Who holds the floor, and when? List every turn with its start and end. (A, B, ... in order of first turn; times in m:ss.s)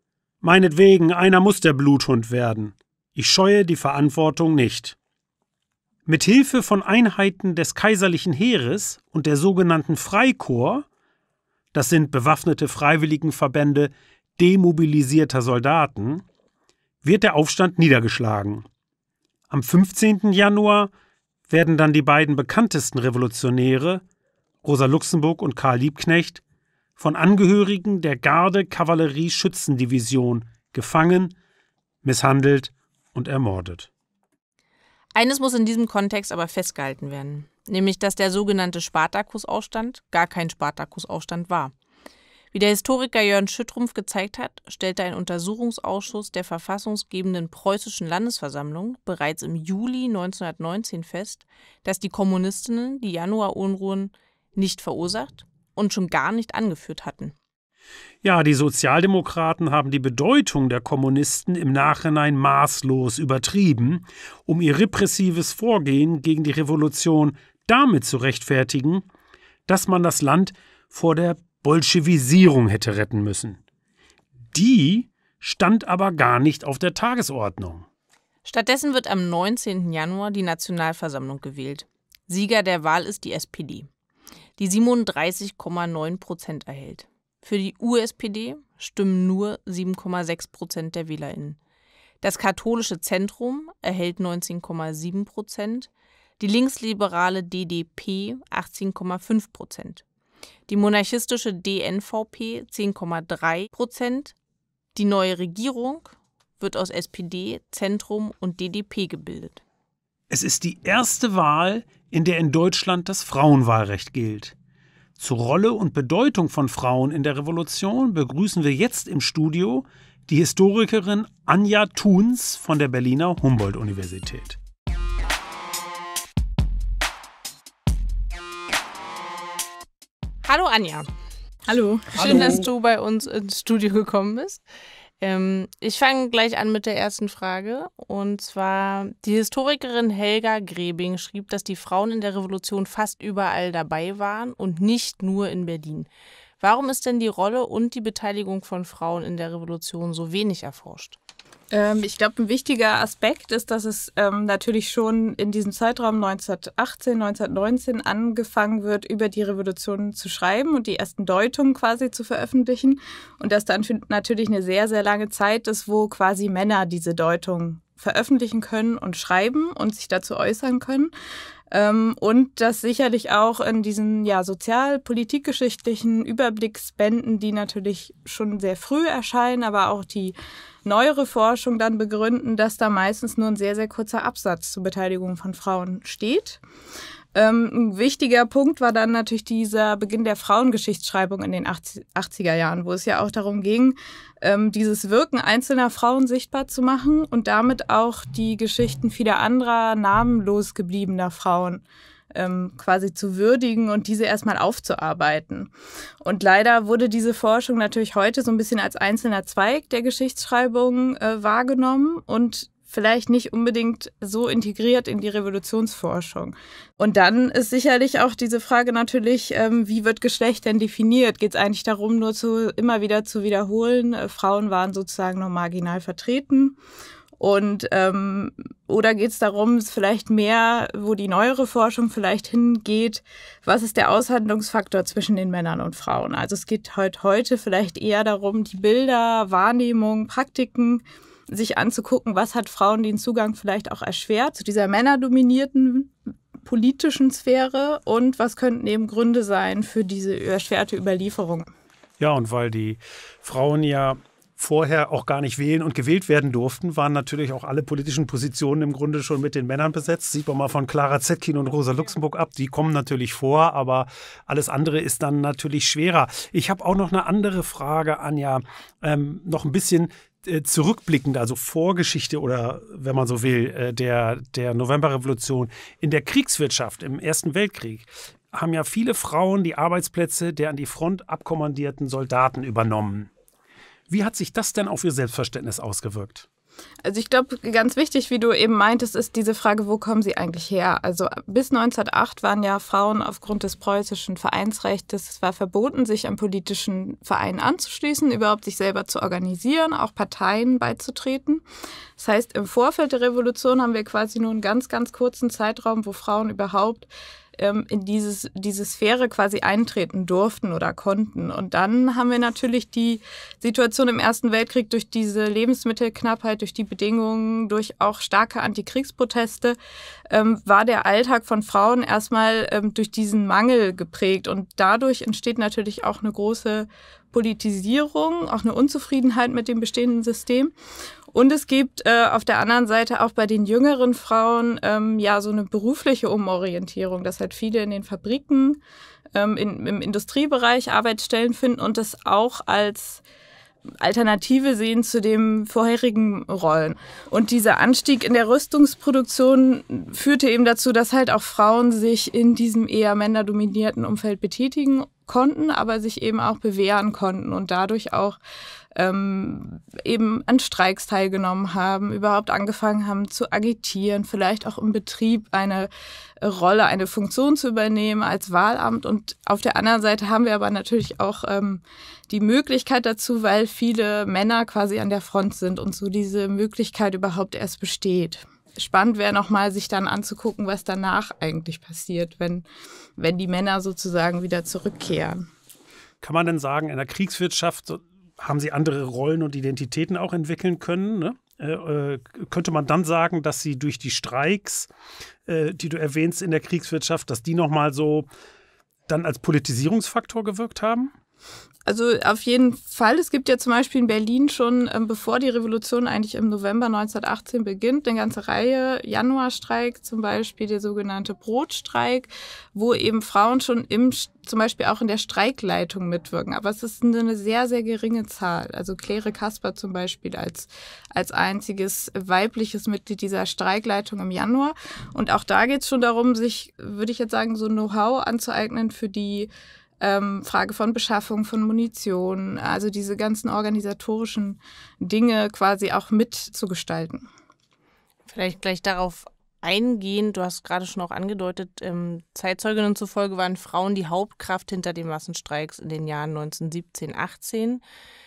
0:00.4-0:05.0 A
0:06.0-0:10.8 A
0:11.7-0:16.2 A
0:17.0-0:18.6 A
0:19.5-0:20.9 A
0:21.5-0:24.0 A
0:24.6-0:26.4 A
0:27.0-0:31.3 A
0:32.0-0:33.9 A
0:35.2-0:41.7 B
0:42.5-0:57.3 B
0:58.2-1:09.1 A
1:09.7-1:13.6 A
1:14.5-1:17.8 A
1:18.4-1:23.9 B
1:24.6-1:31.6 B
1:32.2-1:40.0 B
1:40.7-1:44.4 B
1:44.9-1:49.6 B
1:50.3-1:54.5 A
1:55.2-2:04.6 A
2:10.4-2:11.1 B
2:11.7-2:12.6 C
2:12.1-2:14.6 B
2:12.2-2:12.6 A
2:15.2-2:26.1 B
2:26.6-2:31.2 B
2:31.7-2:51.1 C
2:51.7-3:06.6 C
3:07.3-3:46.8 C
3:47.4-4:11.7 C
4:12.2-4:43.3 A
4:44.1-4:46.5 A
4:47.0-5:01.6 C
5:02.2-5:19.8 C
5:20.3-5:30.7 C
5:31.3-5:38.8 C
5:39.3-5:43.2 C
5:44.0-5:58.4 C
5:58.9-6:05.9 C
6:06.4-6:22.6 C
6:23.2-6:25.4 C
6:26.2-6:34.9 A
6:35.4-6:38.3 A
6:39.1-6:41.1 A
6:41.9-7:09.5 C
7:10.0-7:17.3 C
7:18.3-7:27.8 B